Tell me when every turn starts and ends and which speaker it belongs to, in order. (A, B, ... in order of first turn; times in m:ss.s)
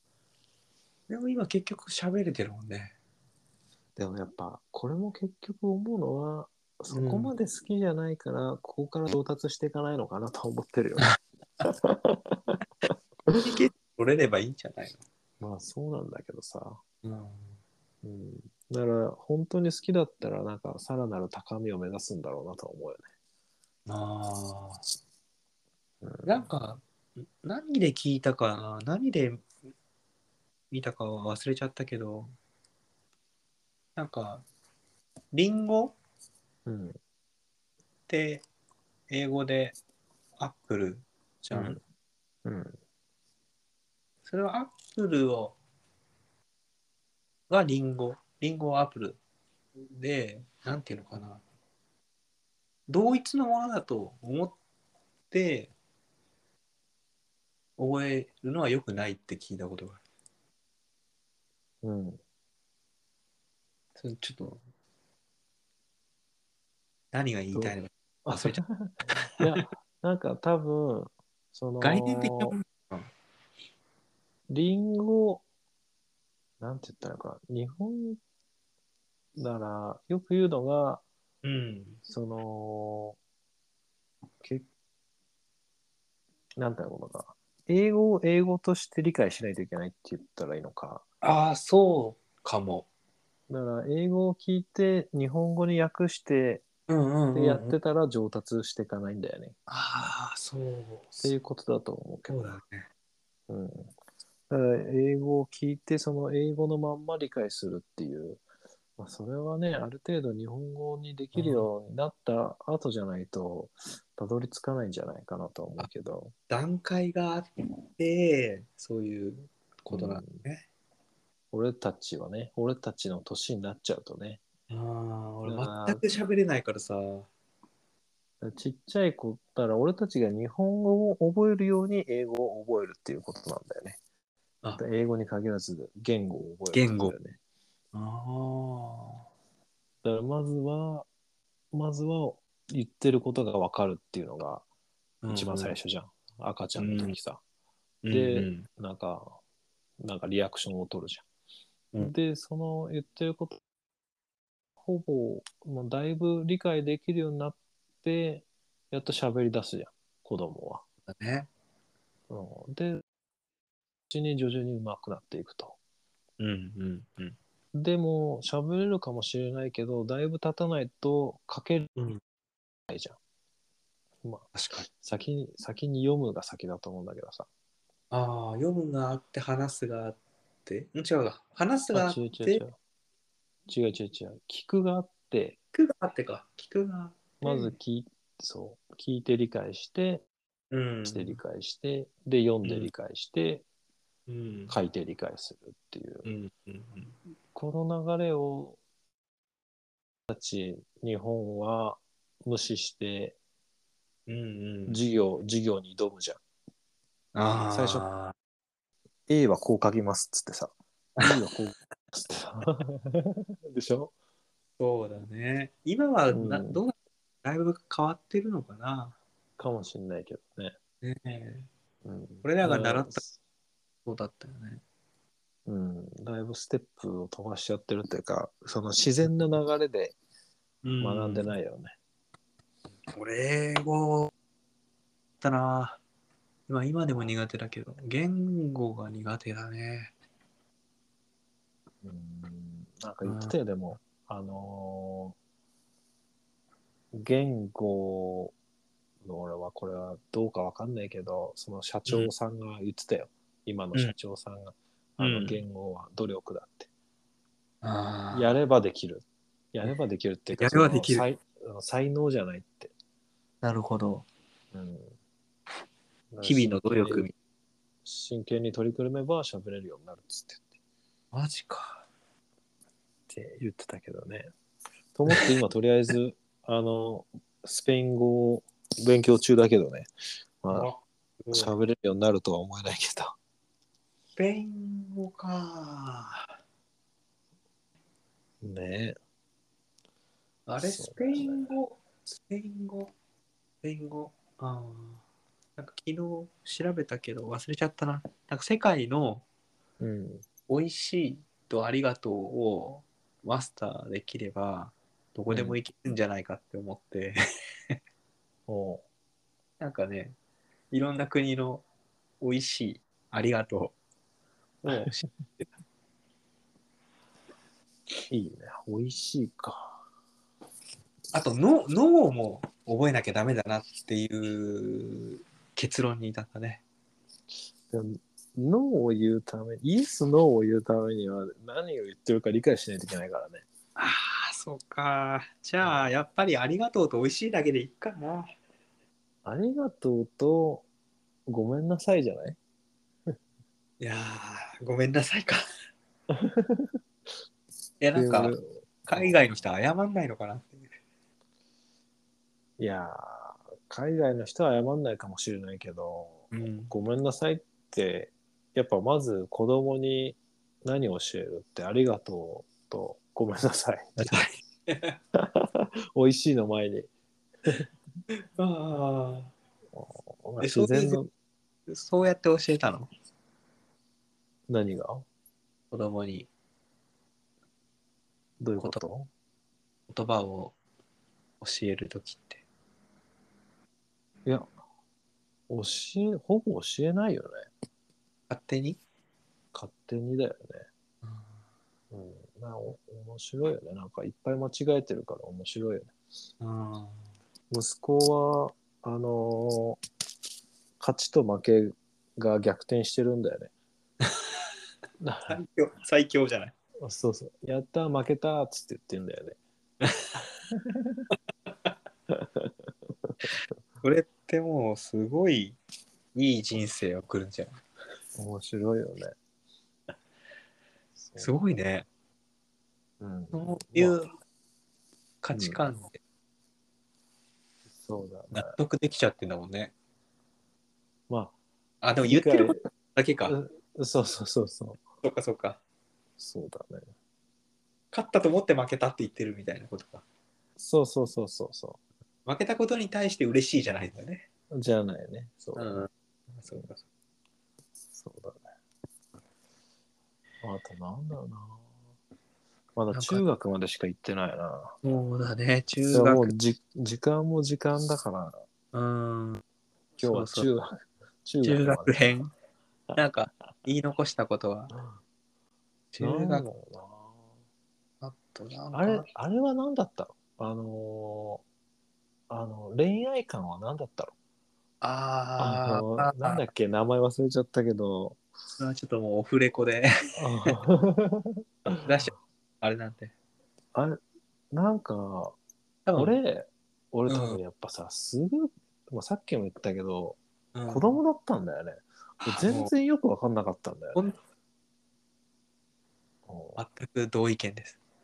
0:01.1-0:03.0 A
0:04.0-0:11.1 B
0:06.9-0:07.3 A
0:11.6-0:12.6 B
0:13.3-0:15.0 A
0:15.4-0:16.8 B
0:17.0-0:17.6 A
0:18.0-0:23.1 B
0:23.9-0:24.8 A
0:26.0-0:26.4 B
0:26.2-0:29.4 A
0:30.7-0:32.3 A
0:34.0-0:34.4 A
0:35.3-0:36.0 A
0:36.7-0:37.0 B
0:38.1-0:38.5 A
0:39.1-0:39.8 A
0:40.4-0:41.8 A
0:41.5-0:41.8 B
0:42.4-0:42.8 B
0:44.3-0:45.6 A
0:47.5-0:49.2 A
0:49.8-0:51.4 A
0:52.9-0:54.6 A
0:55.3-0:55.7 A
0:57.8-1:00.0 A
1:01.8-1:02.2 B
1:04.0-1:04.6 A
1:07.1-1:08.6 A
1:08.3-1:12.6 B
1:09.3-1:09.7 A
1:11.8-1:13.1 A
1:14.5-1:15.4 B
1:16.6-1:18.2 B
1:19.4-1:21.0 B
1:21.4-1:22.0 A
1:22.1-1:23.2 B
1:24.4-1:24.7 B
1:26.6-1:31.0 B
1:31.2-1:32.9 A
1:33.5-1:36.6 B
1:36.9-1:37.8 A
1:37.3-1:39.6 B
1:39.7-1:41.3 A
1:41.2-1:42.5 B
1:42.3-1:42.9 A
1:43.5-1:43.9 B
1:44.5-1:48.4 B
1:49.0-1:56.3 B
1:51.3-1:51.7 A
1:56.5-2:00.6 A
1:59.9-2:00.4 B
2:01.5-2:04.4 B
2:04.7-2:07.3 A
2:05.5-2:06.0 B
2:08.4-2:14.0 B
2:14.8-2:17.4 B
2:16.7-2:17.1 A
2:17.9-2:19.2 A
2:20.0-2:21.1 B
2:21.7-2:24.6 B
2:25.2-2:25.7 A
2:25.3-2:27.4 B
2:26.8-2:27.2 A
2:28.0-2:28.7 A
2:28.1-2:29.4 B
2:30.0-2:31.2 B
2:32.0-2:33.6 B
2:34.8-2:40.8 B
2:41.1-2:41.5 A
2:42.3-2:43.0 B
2:44.1-2:45.8 B
2:46.4-2:47.4 A
2:47.7-2:51.9 B
2:52.9-2:53.2 B
2:54.2-2:57.5 B
2:54.5-2:54.9 A
2:58.1-3:02.6 A
3:01.9-3:02.8 B
3:03.7-3:05.6 B
3:05.7-3:07.8 A
3:07.4-3:10.3 B
3:10.7-3:11.4 A
3:11.1-3:13.6 B
3:12.6-3:12.9 A
3:14.3-3:14.8 A
3:14.7-3:16.3 B
3:16.2-3:17.2 A
3:17.5-3:18.8 B
3:20.3-3:23.4 B
3:24.3-3:25.0 A
3:24.9-3:26.4 B
3:27.4-3:28.3 A
3:27.7-3:28.1 B
3:29.3-3:34.1 B
3:34.8-3:39.2 A
3:36.3-3:36.8 B
3:39.6-3:40.8 B
3:41.0-3:41.7 A
3:42.0-3:43.3 B
3:42.4-3:43.2 A
3:44.0-3:44.8 A
3:45.7-3:50.2 B
3:50.8-3:51.6 A
3:51.0-3:52.0 B
3:53.1-3:54.3 A
3:55.4-3:56.0 A
3:56.7-4:00.1 A
4:02.0-4:05.4 B
4:03.2-4:03.6 A
4:07.1-4:08.6 B
4:09.2-4:16.9 B
4:15.2-4:15.6 A
4:17.8-4:18.6 A
4:18.3-4:22.9 B
4:20.5-4:21.3 A
4:23.6-4:24.3 A
4:24.7-4:25.2 B
4:26.3-4:27.3 B
4:26.4-4:27.3 A
4:28.0-4:30.7 B
4:31.3-4:32.1 A
4:33.3-4:34.5 B
4:35.2-4:40.1 B
4:40.6-4:40.9 B
4:40.7-4:41.7 A
4:41.5-4:43.4 B
4:44.4-4:46.5 A
4:48.6-4:49.2 B
4:50.7-4:53.1 A
4:50.8-4:51.7 B
4:53.8-4:55.2 A
4:55.8-4:59.4 A
5:00.0-5:00.4 B
5:00.7-5:07.4 A
5:05.5-5:05.8 B
5:08.7-5:09.0 B
5:09.8-5:10.4 A
5:10.9-5:11.8 A
5:12.4-5:14.0 A
5:14.8-5:15.2 B
5:14.9-5:15.7 A
5:18.3-5:20.0 B
5:21.3-5:26.8 A
5:27.9-5:33.6 B
5:34.0-5:38.5 A
5:39.4-5:40.9 B
5:41.5-5:42.6 B
5:44.0-5:45.6 A
5:46.3-5:47.0 B
5:48.0-5:50.9 A
5:48.1-5:49.4 B
5:52.8-6:04.4 B
5:56.5-5:56.9 A
6:04.2-6:05.2 A
6:05.4-6:07.1 B
6:08.6-6:09.5 A
6:09.9-6:11.3 B
6:10.6-6:11.2 A
6:11.9-6:13.1 A
6:14.7-6:15.3 B
6:15.9-6:16.5 A
6:18.6-6:19.3 B
6:20.1-6:20.8 A
6:21.6-6:22.6 A
6:25.7-6:27.7 B
6:28.5-6:29.0 A
6:29.7-6:30.8 B
6:32.1-6:36.1 B
6:36.6-6:37.2 A
6:37.7-6:40.0 B
6:41.0-6:43.7 B
6:45.2-6:45.6 B
6:45.5-6:46.7 A
6:47.0-6:49.6 B
6:50.0-6:50.4 A
6:50.7-6:51.3 B
6:52.3-6:53.5 B
6:54.0-6:55.8 A
6:56.4-6:57.8 A
6:58.4-6:59.4 B
7:01.2-7:01.5 B
7:01.4-7:02.1 A
7:03.2-7:04.2 B
7:03.5-7:04.3 A
7:05.4-7:06.2 A
7:05.5-7:05.8 B
7:07.9-7:08.8 B
7:08.5-7:09.9 A
7:11.3-7:11.6 B
7:12.0-7:13.6 A
7:12.3-7:12.8 B
7:13.5-7:15.0 B
7:15.2-7:15.8 A
7:16.4-7:17.1 B
7:18.1-7:20.2 A
7:20.8-7:22.0 B
7:22.5-7:24.5 A
7:24.7-7:26.0 B
7:25.8-7:27.0 A
7:28.1-7:28.6 B
7:30.6-7:31.9 B
7:33.0-7:35.0 B
7:33.1-7:33.4 A
7:35.0-7:36.6 A
7:36.1-7:38.6 B
7:38.9-7:39.6 A
7:40.2-7:40.9 B
7:40.2-7:40.7 A
7:41.4-7:42.2 B
7:41.6-7:42.5 A
7:43.2-7:44.9 A
7:44.9-7:45.2 B
7:46.1-7:46.7 A
7:46.2-7:47.5 B
7:48.2-7:49.3 A
7:48.9-7:51.6 B
7:52.5-7:54.4 B
7:55.0-7:56.7 A
7:55.6-7:58.4 B
7:58.8-8:00.8 A
8:00.4-8:02.3 B
8:01.9-8:03.3 A
8:03.9-8:04.2 B
8:04.7-8:05.6 B
8:06.1-8:06.4 A
8:06.2-8:14.2 B
8:07.3-8:07.6 A
8:10.7-8:11.2 A
8:12.4-8:12.9 A
8:16.5-8:16.8 B
8:16.8-8:18.0 A